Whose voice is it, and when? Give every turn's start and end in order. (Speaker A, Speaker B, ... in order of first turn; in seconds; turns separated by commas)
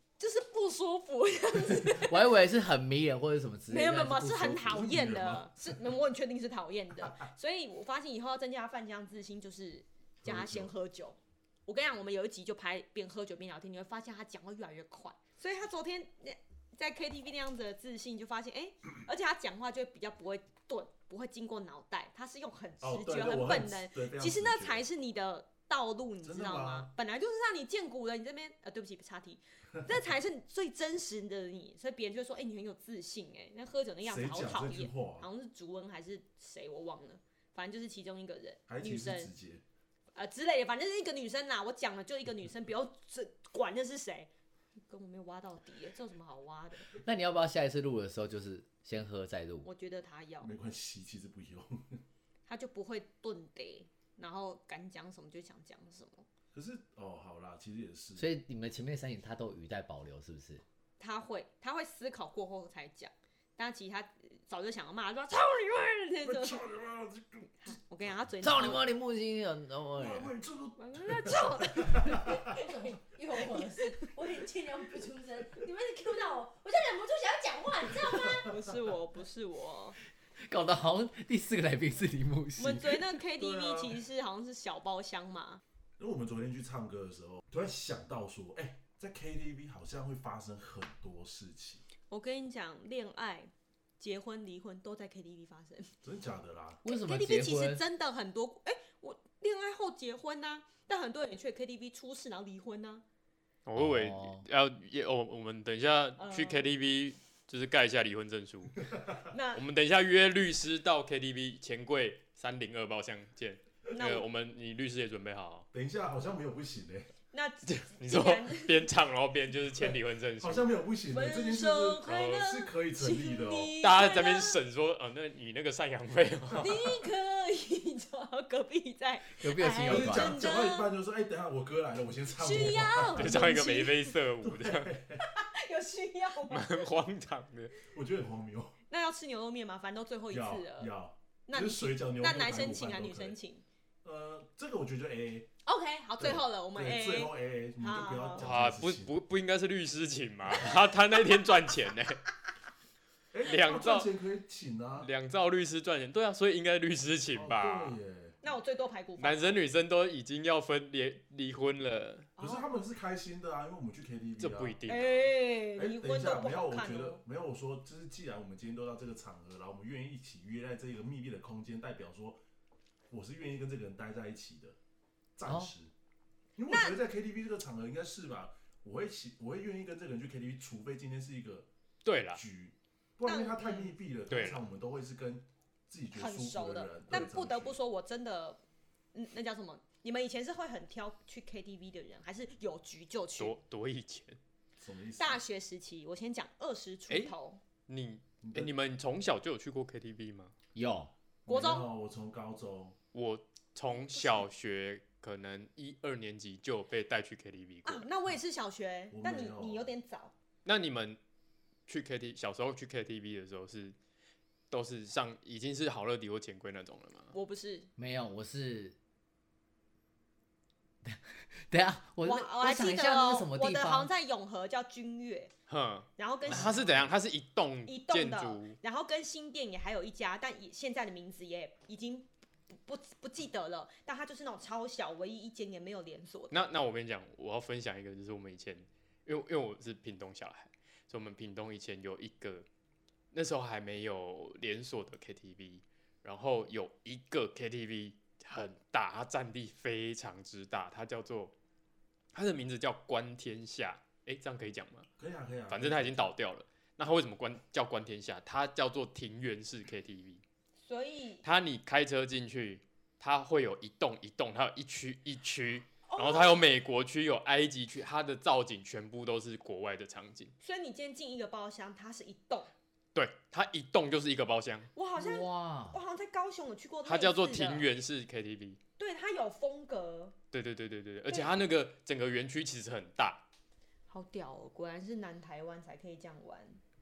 Speaker A: 0.2-2.2, Speaker B: 1.9-4.9, Speaker A: 3.7-39.3, Speaker C: 4.7-5.8, Speaker C: 10.2-10.7, Speaker C: 22.8-24.9, Speaker C: 26.2-26.9, Speaker C: 34.0-35.3, Speaker C: 38.7-39.6, Speaker A: 40.1-44.3, Speaker A: 44.9-46.9, Speaker B: 46.9-49.7, Speaker A: 49.6-50.5, Speaker C: 50.4-52.0, Speaker A: 52.5-56.3, Speaker C: 56.5-58.3, Speaker B: 58.2-60.6, Speaker A: 61.0-66.6, Speaker C: 66.2-67.7, Speaker A: 67.6-68.9, Speaker B: 68.4-70.3, Speaker C: 70.0-72.6, Speaker A: 70.8-72.3, Speaker D: 72.2-78.6, Speaker A: 78.4-80.0, Speaker B: 80.4-83.0, Speaker A: 82.6-85.6, Speaker C: 83.4-84.0, Speaker C: 86.0-91.8, Speaker A: 92.1-95.9, Speaker C: 96.0-96.8, Speaker B: 96.8-97.8, Speaker A: 96.8-103.0, Speaker E: 103.7-108.9, Speaker B: 103.8-104.5, Speaker A: 106.2-106.7, Speaker A: 109.3-109.6, Speaker E: 109.5-115.7, Speaker A: 113.9-114.3, Speaker C: 115.7-117.1, Speaker A: 117.3-118.9, Speaker E: 117.7-120.7, Speaker C: 120.4-123.8, Speaker A: 121.1-124.6, Speaker E: 122.1-122.4, Speaker E: 123.8-126.7, Speaker A: 126.6-130.9, Speaker B: 129.3-130.4, Speaker C: 129.8-133.6, Speaker A: 132.4-134.1, Speaker E: 132.6-135.0, Speaker C: 134.4-135.2, Speaker A: 135.2-136.9, Speaker E: 136.5-137.8, Speaker C: 137.9-138.8, Speaker A: 138.9-140.9, Speaker C: 140.3-143.4, Speaker A: 141.5-143.6, Speaker C: 144.0-145.5, Speaker A: 145.7-148.5, Speaker C: 146.2-149.2, Speaker E: 148.4-152.2, Speaker C: 153.3-155.1, Speaker E: 153.4-154.1, Speaker E: 155.0-158.0, Speaker C: 157.3-158.4, Speaker A: 158.4-159.6, Speaker E: 159.2-162.3, Speaker A: 162.4-162.8, Speaker C: 162.4-164.8, Speaker E: 164.4-165.3, Speaker A: 164.9-167.2, Speaker C: 165.8-172.4, Speaker C: 173.1-174.8, Speaker C: 175.4-175.9, Speaker B: 175.5-175.7, Speaker C: 176.6-181.7, Speaker A: 176.7-177.0, Speaker E: 182.1-182.4, Speaker C: 182.3-187.8, Speaker A: 183.2-183.9, Speaker E: 184.3-184.6, Speaker A: 186.1-188.6, Speaker A: 189.1-193.5, Speaker E: 193.4-194.4, Speaker C: 194.8-195.4, Speaker A: 195.2-197.6, Speaker E: 197.9-200.5, Speaker C: 198.4-198.7, Speaker B: 200.8-201.1, Speaker C: 201.5-203.0, Speaker A: 201.5-201.9, Speaker E: 203.1-208.1, Speaker A: 203.9-204.5, Speaker A: 207.8-210.3, Speaker C: 209.1-209.9, Speaker E: 210.7-211.2, Speaker E: 211.9-213.9, Speaker E: 214.7-217.3, Speaker A: 217.3-217.9, Speaker B: 218.0-219.0, Speaker B: 221.0-224.1, Speaker A: 222.2-225.5, Speaker E: 225.7-228.8, Speaker A: 226.2-227.0, Speaker A: 227.8-236.6, Speaker E: 236.5-242.7, Speaker E: 243.3-251.5, Speaker E: 252.3-255.1, Speaker C: 255.2-256.2, Speaker E: 255.7-260.4, Speaker A: 260.9-261.4, Speaker E: 261.4-270.5, Speaker A: 266.1-266.7, Speaker A: 270.6-272.7, Speaker E: 273.1-274.9, Speaker A: 274.9-277.9, Speaker B: 275.2-276.0, Speaker E: 277.1-278.8, Speaker A: 279.0-280.4, Speaker E: 280.5-283.4, Speaker A: 281.3-281.6, Speaker A: 284.1-286.8